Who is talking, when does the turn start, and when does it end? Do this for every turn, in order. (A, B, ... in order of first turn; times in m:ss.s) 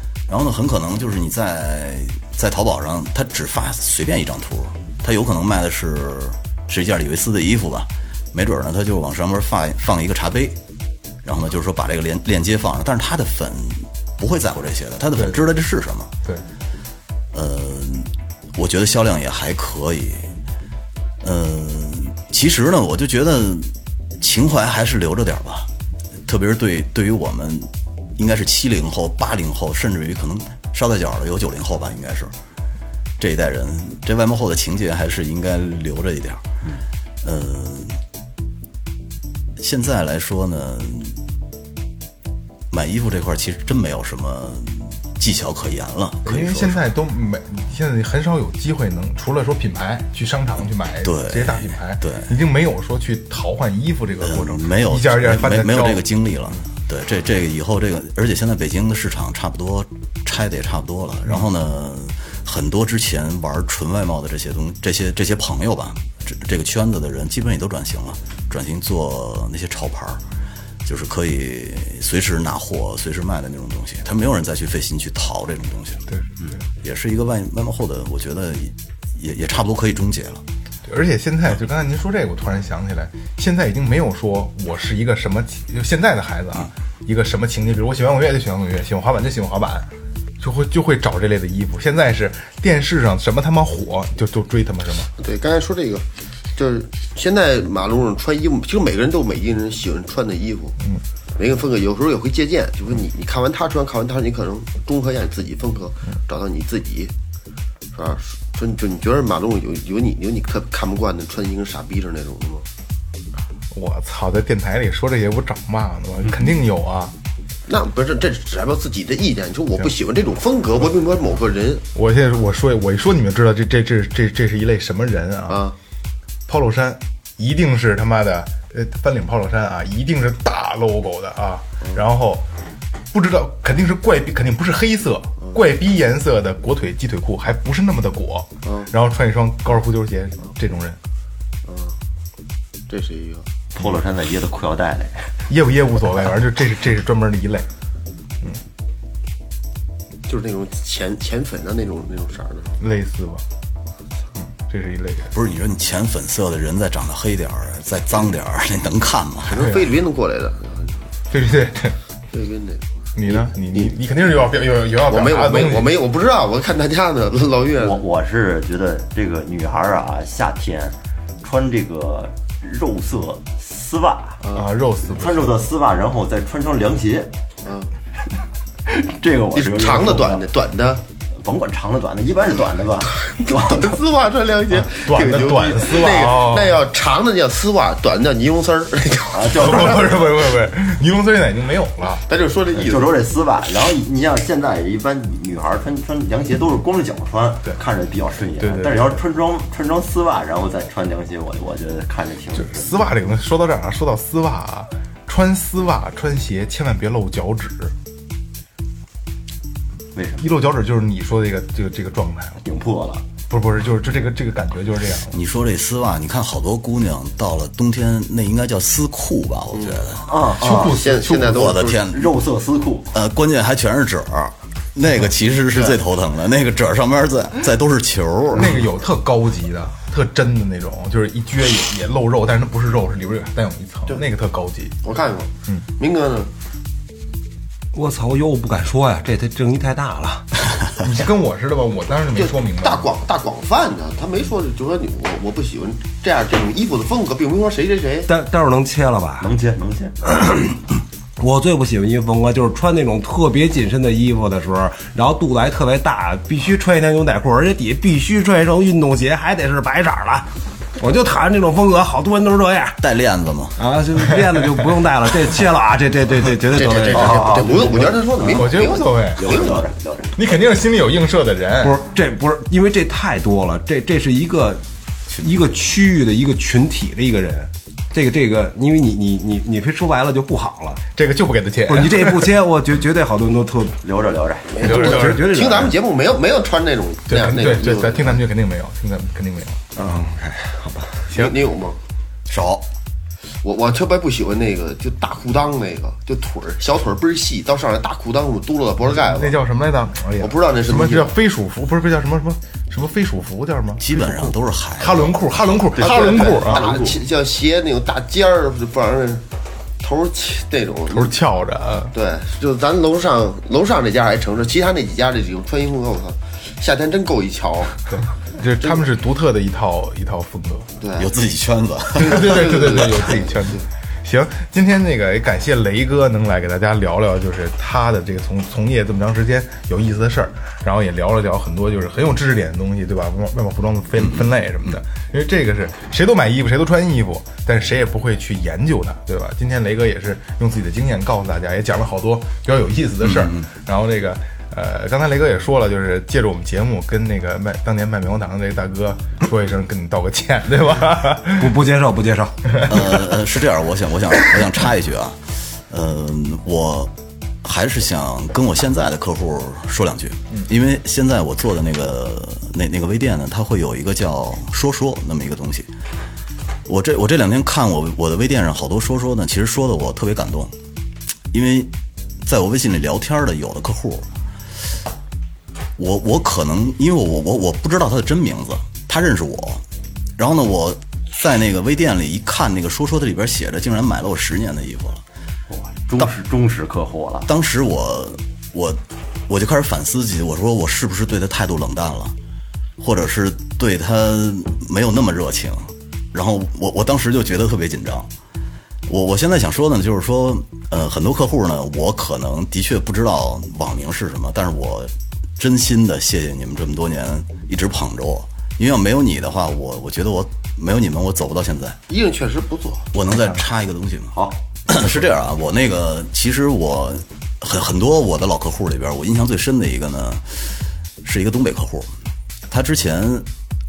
0:00.3-0:10.6 A
0:11.2-0:16.1 A
0:15.2-0:15.5 B
0:17.3-0:20.3 A
0:21.2-0:25.7 A
0:26.2-0:32.3 A
0:33.2-0:36.4 A
0:37.2-0:38.0 A
0:39.6-0:41.2 A
0:42.7-0:46.8 A
0:46.2-0:56.1 B
0:51.0-0:52.3 A
0:54.2-1:10.2 A
1:10.8-1:16.0 A
1:16.8-1:20.4 A
1:20.8-1:35.1 B
1:35.2-1:40.8 C
1:41.4-1:47.1 C
1:47.9-1:52.6 C
1:53.7-1:57.1 B
1:57.7-2:01.8 C
2:01.9-2:05.6 B
2:05.5-2:05.7 C
2:06.5-2:12.4 B
2:13.1-2:21.0 B
2:18.6-2:18.9 C
2:21.6-2:22.0 C
2:22.9-2:23.5 C
2:23.7-2:25.3 D
2:25.5-2:27.7 B
2:30.3-2:32.8 C
2:32.8-2:33.4 B
2:34.4-2:35.3 B
2:35.3-2:39.7 A
2:39.5-2:41.0 C
2:39.6-2:39.8 B
2:41.3-2:42.0 B
2:42.3-2:43.4 C
2:43.1-2:45.9 B
2:45.1-2:48.0 C
2:47.8-2:54.4 D
2:54.5-2:55.6 B
2:55.1-2:57.3 D
2:57.6-2:57.9 C
2:58.8-3:00.5 D
2:59.5-3:01.0 C
3:01.3-3:04.0 D
3:03.4-3:09.9 C
3:04.7-3:06.8 B
3:09.3-3:10.2 D
3:09.5-3:12.2 B
3:12.3-3:13.1 C
3:12.7-3:23.1 D
3:18.6-3:19.2 B
3:22.5-3:27.9 B
3:30.1-3:30.5 D
3:30.4-3:32.6 B
3:32.6-3:33.2 D
3:33.5-3:35.4 B
3:35.3-3:40.3 A
3:40.2-3:41.0 D
3:40.6-3:41.7 B
3:40.6-3:42.0 C
3:41.5-3:42.3 A
3:42.0-3:43.1 D
3:43.1-3:48.8 A
3:48.5-3:55.0 B
3:55.0-3:56.5 C
3:57.9-4:00.5 E
4:01.0-4:03.1 B
4:02.4-4:08.3 C
4:08.3-4:09.5 E
4:09.4-4:10.5 D
4:10.4-4:10.6 E
4:11.4-4:23.0 E
4:23.0-4:23.8 A
4:23.8-4:28.0 E
4:26.7-4:29.8 C
4:27.0-4:28.8 D
4:28.5-4:29.5 B
4:29.3-4:30.4 D
4:30.3-4:32.0 B
4:31.8-4:41.0 E
4:41.2-4:42.5 B
4:41.9-4:44.0 E
4:44.0-4:44.8 D
4:44.7-4:48.4 C
4:44.8-4:45.5 B
4:44.8-4:46.0 E
4:47.3-4:49.9 B
4:50.0-4:51.2 E
4:51.3-4:52.0 C
4:51.3-4:51.6 B
4:52.5-4:52.8 A
4:53.6-4:59.6 C
4:59.1-5:06.9 B
5:00.4-5:01.3 C
5:04.0-5:05.5 A
5:06.0-5:09.4 C
5:06.1-5:07.1 D
5:10.0-5:11.3 C
5:11.1-5:12.1 B
5:12.1-5:18.0 C
5:18.1-5:20.9 B
5:21.0-5:21.3 C
5:21.2-5:23.0 A
5:22.2-5:51.7 B
5:22.3-5:23.8 C
5:34.2-5:34.5 A
5:43.2-5:43.6 A
5:51.6-5:52.8 E
5:52.9-6:05.9 A
6:06.8-6:10.7 A
6:11.5-6:11.9 A
6:12.4-6:14.3 A
6:16.0-6:19.8 A
6:20.4-6:25.2 A
6:25.7-6:27.5 D
6:27.5-6:32.3 A
6:33.0-6:38.3 A
6:39.1-6:52.0 A
6:52.1-6:53.1 C
6:53.1-6:54.4 A
6:54.3-6:55.1 D
6:54.9-7:02.1 A
7:02.7-7:03.5 A